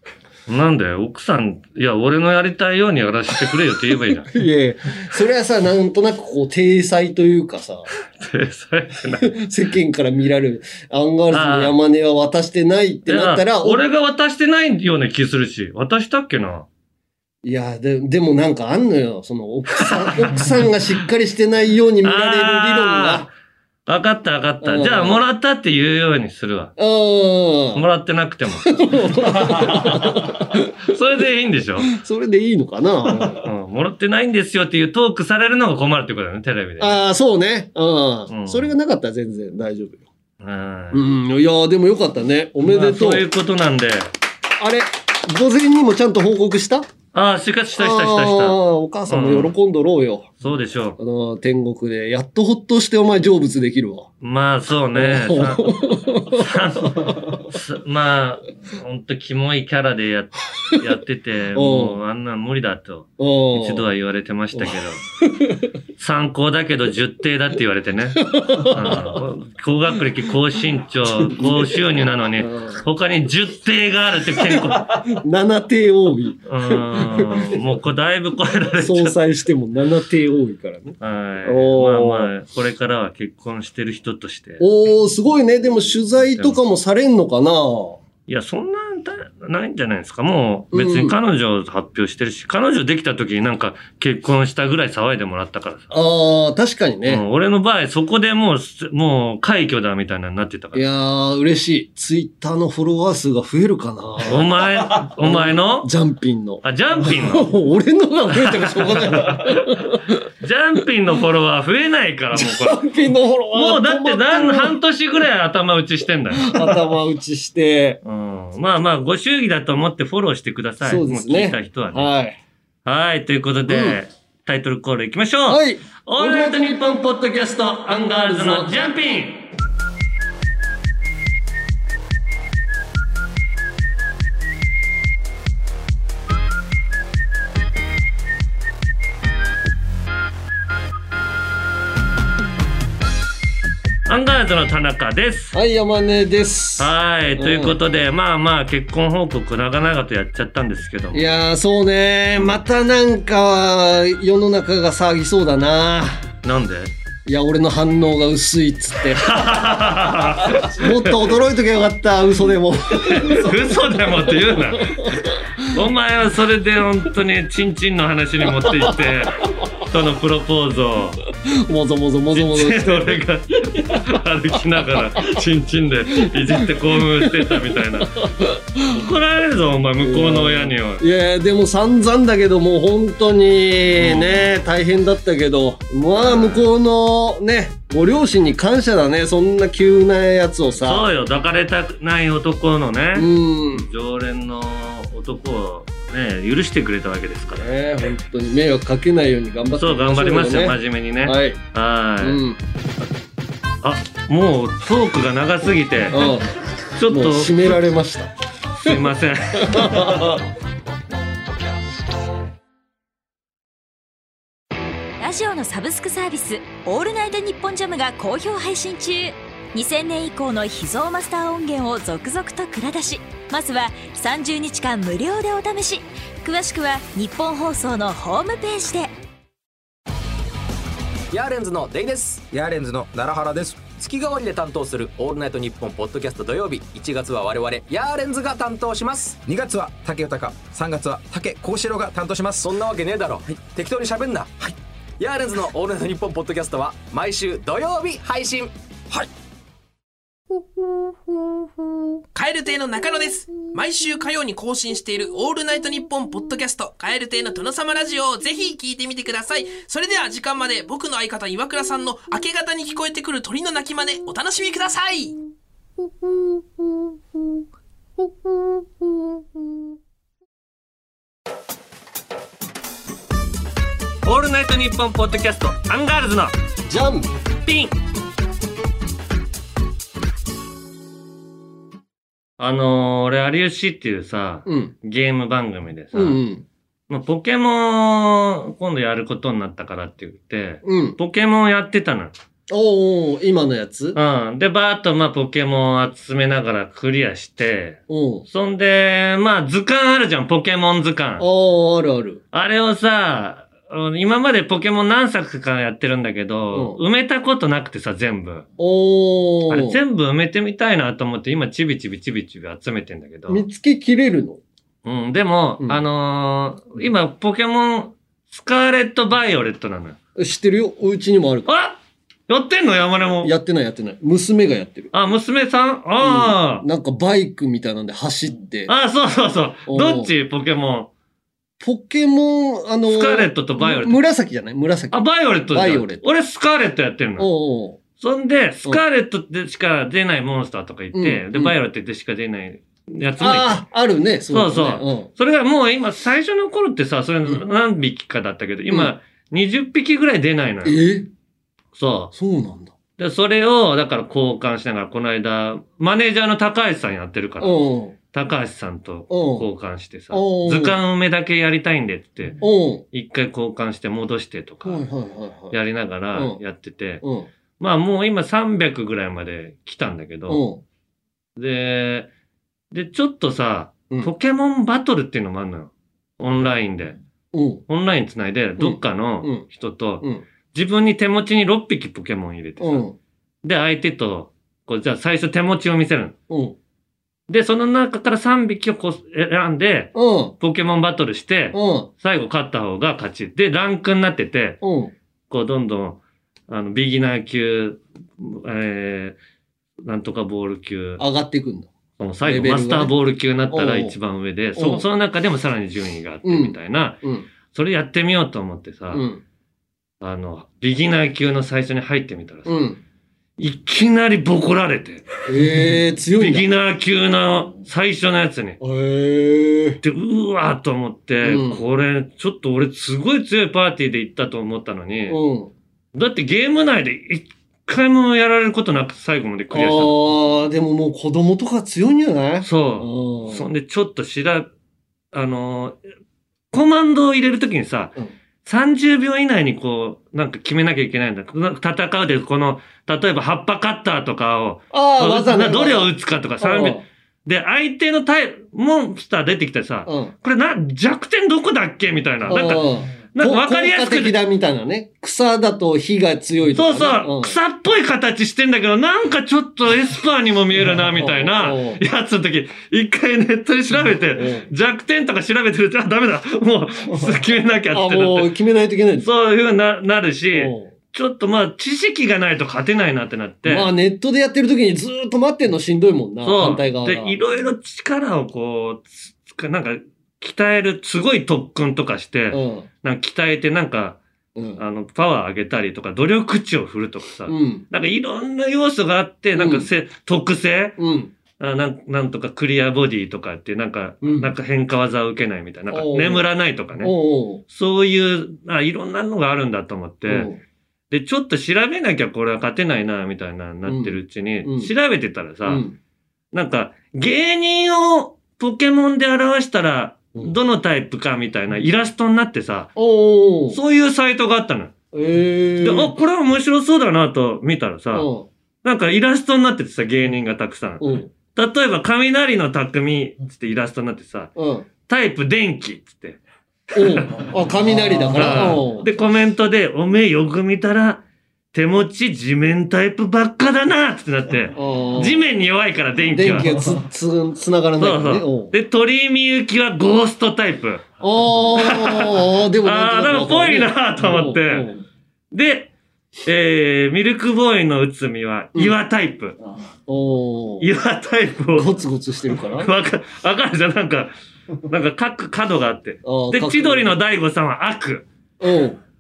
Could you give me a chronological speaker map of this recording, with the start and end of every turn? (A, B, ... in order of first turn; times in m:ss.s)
0:00.5-0:04.3 A
0:04.3-0:07.9 B
0:08.2-0:09.3 A
0:09.1-0:13.8 B
0:11.3-0:11.8 A
0:13.1-0:16.7 A
0:17.4-0:23.3 B
0:19.8-0:20.5 A
0:22.0-0:23.3 A
0:23.9-0:26.7 A
0:24.6-0:25.2 B
0:26.8-0:27.8 B
0:27.7-0:31.9 A
0:28.6-0:30.7 B
0:31.9-0:33.4 B
0:33.1-0:37.0 A
0:36.8-0:40.0 B
0:38.3-0:38.7 A
0:40.4-0:41.0 A
0:40.9-0:43.2 B
0:42.6-0:44.1 A
0:44.6-0:46.9 B
0:47.1-0:49.5 A
0:47.8-0:50.3 B
0:50.4-0:51.0 A
0:51.0-0:54.1 B
0:54.2-1:05.0 A
0:54.9-0:57.4 B
1:01.6-1:02.0 B
1:03.2-1:03.9 B
1:04.5-1:05.7 B
1:06.0-1:15.1 A
1:08.2-1:09.2 B
1:11.1-1:11.8 B
1:12.4-1:12.8 B
1:14.4-1:17.6 B
1:16.4-1:19.2 A
1:18.8-1:22.3 B
1:21.0-1:24.6 A
1:24.6-1:28.0 B
1:26.2-1:26.6 A
1:28.3-1:35.9 A
1:30.7-1:31.2 B
1:35.9-1:37.2 B
1:37.0-1:40.8 A
1:40.7-1:50.2 B
1:44.2-1:45.9 A
1:46.6-1:47.5 A
1:48.3-1:52.8 A
1:52.3-1:54.8 B
1:53.5-1:56.8 A
1:56.4-1:58.0 B
1:58.0-2:02.1 A
2:00.8-2:02.4 B
2:02.8-2:09.4 A
2:03.7-2:04.0 B
2:05.5-2:07.1 B
2:07.9-2:08.9 B
2:24.0-2:25.6 A
2:25.5-2:27.8 B
2:26.8-2:31.3 A
2:31.1-2:36.3 B
2:36.4-2:36.9 A
2:37.3-2:39.9 B
2:39.2-2:41.3 A
2:40.4-2:45.2 B
2:42.9-2:51.2 A
2:48.6-2:48.9 B
2:51.4-2:53.2 B
2:52.3-2:58.2 A
2:56.2-2:58.8 B
2:58.9-3:01.0 A
3:00.0-3:11.1 B
3:04.0-3:04.4 A
3:06.2-3:06.7 A
3:10.8-3:17.7 A
3:13.1-3:13.9 B
3:17.5-3:21.6 B
3:19.8-3:22.4 A
3:22.2-3:22.6 B
3:23.8-3:26.3 A
3:26.1-3:26.4 B
3:27.0-3:27.8 A
3:27.1-3:28.3 B
3:28.8-3:30.3 A
3:29.6-3:30.4 B
3:35.2-3:49.1 C
3:51.3-3:52.5 D
3:52.5-3:53.8 E
3:53.9-3:59.4 D
3:59.4-4:02.6 E
4:02.6-4:08.7 D
4:12.3-4:25.4 F
4:34.2-4:36.5 A
4:36.9-4:37.3 B
4:37.6-4:37.9 A
4:42.6-4:46.4 A
4:44.6-4:44.9 B
4:46.1-4:46.6 B
4:47.1-4:52.3 A
4:50.8-4:51.2 B
4:52.7-4:54.2 B
4:54.1-5:01.4 A
4:58.1-4:58.4 B
5:01.4-5:02.4 B
5:02.5-5:08.6 A
5:06.7-5:07.0 B
5:08.8-5:10.0 B
5:09.7-5:13.6 A
5:13.5-5:14.6 B
5:15.0-5:20.2 A
5:20.4-5:21.7 B
5:21.6-5:23.5 A
5:23.4-5:25.1 B
5:25.1-5:26.8 A
5:26.2-5:28.9 B
5:28.9-5:31.1 A
5:29.9-5:30.3 B
5:31.8-5:36.3 B
5:33.1-5:34.2 A
5:35.1-5:37.5 A
5:37.4-5:38.0 B
5:38.2-5:43.8 A
5:41.1-5:41.7 B
5:43.4-5:45.3 B
5:44.5-5:51.0 A
5:50.8-5:51.3 B
5:52.0-5:52.3 A
5:52.3-5:52.9 B
5:53.2-5:57.8 A
5:57.6-5:58.2 B
5:58.3-6:02.6 A
5:59.3-5:59.7 B
6:00.3-6:01.0 B
6:02.6-6:03.0 B
6:03.1-6:05.0 A
6:04.8-6:05.8 B
6:05.7-6:07.2 A
6:06.3-6:06.6 B
6:07.2-6:07.5 B
6:07.8-6:10.6 A
6:10.5-6:10.8 B
6:11.6-6:12.3 A
6:12.9-6:17.2 A
6:17.5-6:17.8 B
6:17.9-6:23.0 A
6:18.8-6:19.6 B
6:22.8-6:23.2 B
6:23.6-6:26.3 A
6:26.5-6:26.8 B
6:27.5-6:34.8 A
6:30.1-6:30.6 B
6:31.7-6:32.1 B
6:34.8-6:35.1 B
6:35.5-6:39.4 A
6:40.0-6:41.2 A
6:41.2-6:41.9 B
6:42.2-6:47.2 A
6:42.4-6:43.1 B
6:43.7-6:44.1 B
6:44.8-6:45.0 B
6:46.4-6:47.5 B
6:47.7-6:49.2 A
6:49.1-6:49.4 B
6:50.2-6:52.8 A
6:52.6-6:53.0 B
6:53.6-6:55.3 A
6:55.5-6:56.7 B
6:56.4-6:58.8 A
6:58.8-7:00.0 B
7:00.0-7:05.4 A
7:01.4-7:01.8 B
7:05.3-7:05.7 B
7:06.1-7:10.2 A
7:09.7-7:13.6 B
7:12.6-7:14.7 A
7:15.3-7:16.0 A
7:16.7-7:34.4 A
7:24.9-7:27.0 B
7:30.0-7:30.3 B
7:32.5-7:37.6 B
7:36.7-7:48.5 A
7:41.2-7:42.0 B
7:44.4-7:44.7 B
7:47.9-7:49.3 B
7:49.2-7:53.9 A
7:50.5-7:50.9 B
7:53.6-7:57.4 B
7:56.4-8:04.2 A
8:02.5-8:02.9 B
8:04.6-8:04.8 B
8:04.8-8:11.0 A
8:07.5-8:07.9 B
8:09.6-8:09.9 B
8:11.0-8:11.3 B
8:11.6-8:17.1 A
8:14.2-8:14.5 B
8:15.9-8:16.4 B
8:17.0-8:17.6 B
8:17.7-8:20.5 A
8:20.3-8:20.6 B
8:21.1-8:25.8 A
8:23.9-8:24.9 B
8:25.6-8:26.0 B
8:26.5-8:32.9 A
8:33.0-8:33.8 B
8:33.7-8:34.9 A
8:35.1-8:36.1 B
8:35.8-8:38.3 A
8:38.1-8:38.5 B
8:38.8-8:44.5 A
8:41.0-8:41.3 B
8:44.6-8:44.9 B
8:45.1-8:46.4 A
8:47.0-8:47.5 A
8:47.0-8:49.1 B
8:48.2-8:51.2 A
8:51.7-8:56.9 A
8:54.7-8:55.5 B
8:56.3-8:58.7 B
8:58.0-9:01.1 A
9:01.2-9:05.0 B
9:01.7-9:04.9 A
9:05.5-9:05.9 A
9:06.4-9:09.6 A
9:10.1-9:10.9 B
9:10.8-9:12.0 A
9:11.7-9:12.9 B
9:12.8-9:14.3 A
9:14.9-9:18.2 A
9:16.2-9:17.1 B
9:18.6-9:19.0 B